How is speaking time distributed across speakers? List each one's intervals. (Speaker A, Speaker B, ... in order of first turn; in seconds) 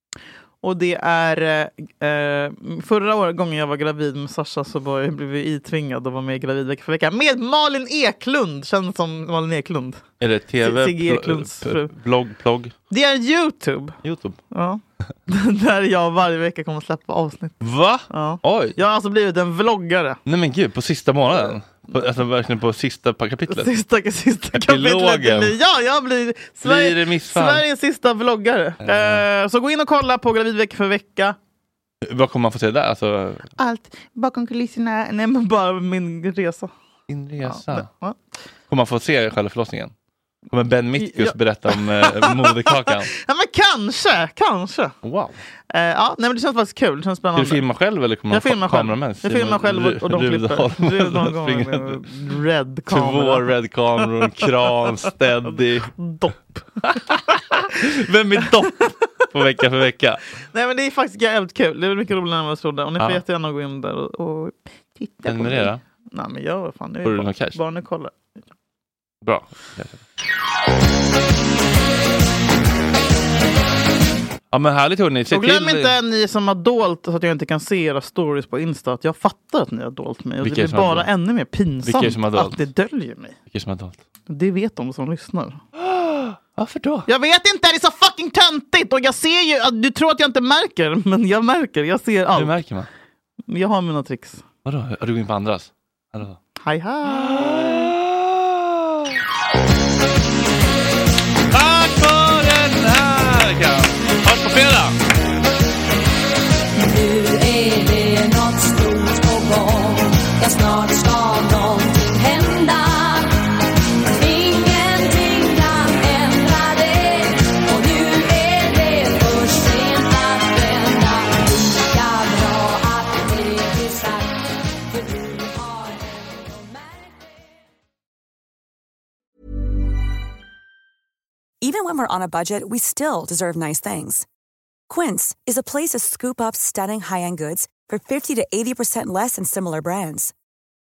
Speaker A: 0.6-10.0, 10.6-11.9, 12.9-14.0, 14.5-17.6, 18.1-20.2, 23.5-31.4, 33.6-36.7, 37.4-38.2, 41.0-44.9, 45.7-47.6, 48.3-54.4, 55.5-56.7, 60.5-68.1, 75.3-83.4, 84.3-85.6, 87.1-92.5, 93.5-94.4, 96.6-97.9
Speaker B: 10.2-12.7, 14.0-14.4, 17.6-18.8, 20.3-23.7, 24.5-25.6, 26.6-27.6, 28.8-29.2, 32.0-33.5, 37.1-37.9, 38.7-39.9, 40.5-43.1, 45.0-45.4, 47.4-52.1, 52.9-55.9, 56.9-60.2, 63.0-63.2, 65.2-65.8, 67.0-67.6, 69.2-70.0, 74.5-76.0, 80.4-81.1, 81.8-82.7, 83.5-84.0, 85.8-87.1, 92.3-92.9, 94.7-96.4, 97.0-99.2, 101.5-105.0
Speaker C: 106.8-113.5, 114.1-127.2
Speaker D: 131.6-134.3, 134.9-140.3